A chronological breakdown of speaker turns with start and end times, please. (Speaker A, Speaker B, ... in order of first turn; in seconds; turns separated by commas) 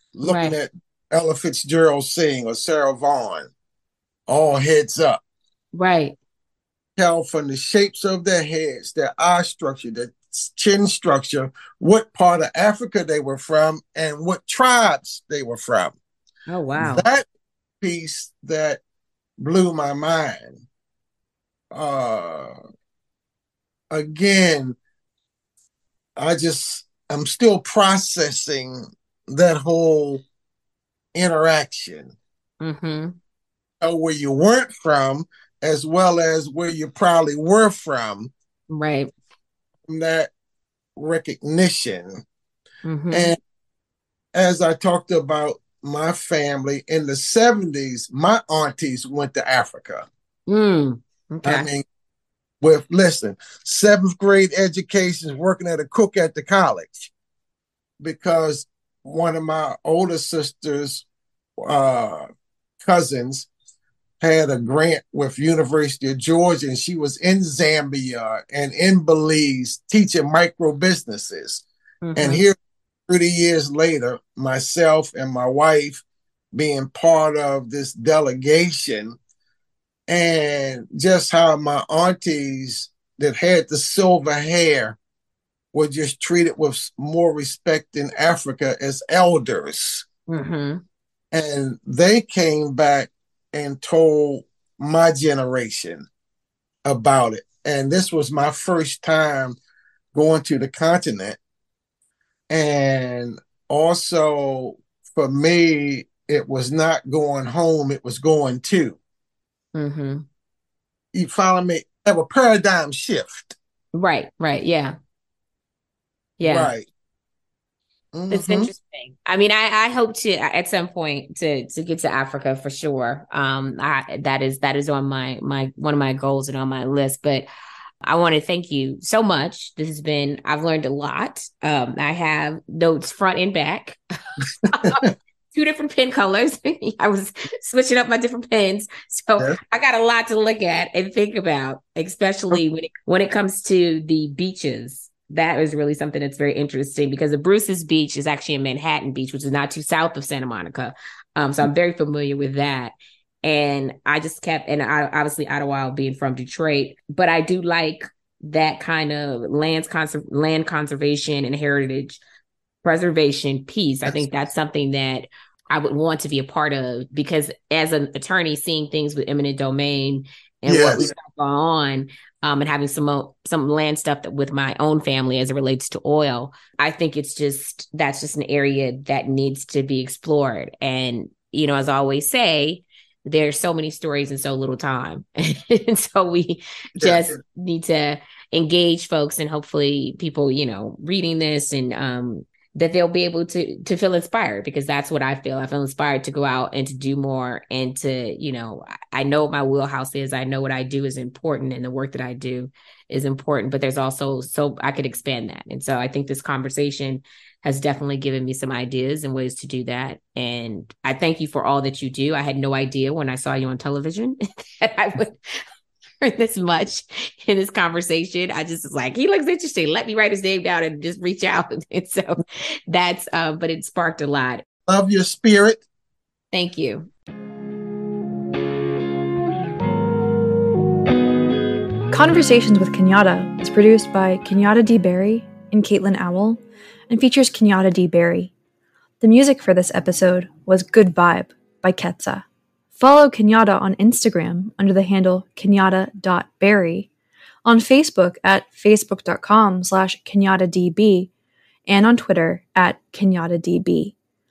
Speaker A: 0.2-3.5, Speaker B: 0.2-0.6, Speaker A: 4.3-5.2, Speaker B: 5.7-6.2, Speaker A: 7.0-16.0, Speaker B: 16.5-17.1, Speaker A: 16.8-17.3, Speaker A: 17.8-18.8, Speaker A: 19.4-20.6, Speaker A: 21.7-22.6, Speaker A: 23.9-24.8, Speaker A: 26.2-30.2, Speaker A: 31.1-32.2, Speaker B: 32.6-33.2, Speaker A: 33.8-38.3, Speaker B: 38.7-39.1, Speaker A: 39.9-40.3, Speaker A: 41.0-42.2, Speaker B: 42.9-43.3, Speaker A: 43.1-43.4, Speaker A: 44.4-50.1, Speaker B: 50.5-51.7, Speaker A: 51.4-51.9, Speaker A: 52.6-57.1, Speaker A: 58.0-61.1, Speaker A: 61.6-62.3, Speaker A: 62.8-63.5, Speaker A: 64.2-71.6, Speaker B: 72.0-72.4, Speaker A: 72.2-72.6, Speaker A: 73.1-79.2, Speaker A: 80.1-85.0, Speaker A: 85.7-90.1, Speaker B: 90.3-90.8, Speaker A: 91.3-96.1, Speaker A: 96.8-99.6, Speaker A: 100.1-101.4, Speaker A: 102.5-109.0, Speaker B: 109.8-110.2, Speaker A: 111.1-113.6, Speaker B: 113.9-115.0, Speaker B: 116.4-116.7, Speaker A: 116.4-116.9, Speaker A: 118.1-118.7, Speaker B: 118.3-127.5, Speaker B: 128.0-162.2, Speaker A: 134.7-135.1, Speaker B: 162.8-215.4, Speaker A: 164.1-164.3, Speaker A: 170.7-171.1, Speaker A: 187.0-187.4, Speaker B: 216.2-224.6, Speaker A: 224.9-225.8, Speaker B: 226.5-227.1, Speaker C: 232.1-238.5, Speaker C: 239.2-242.4, Speaker C: 243.0-247.1, Speaker C: 247.7-251.3, Speaker C: 251.9-254.2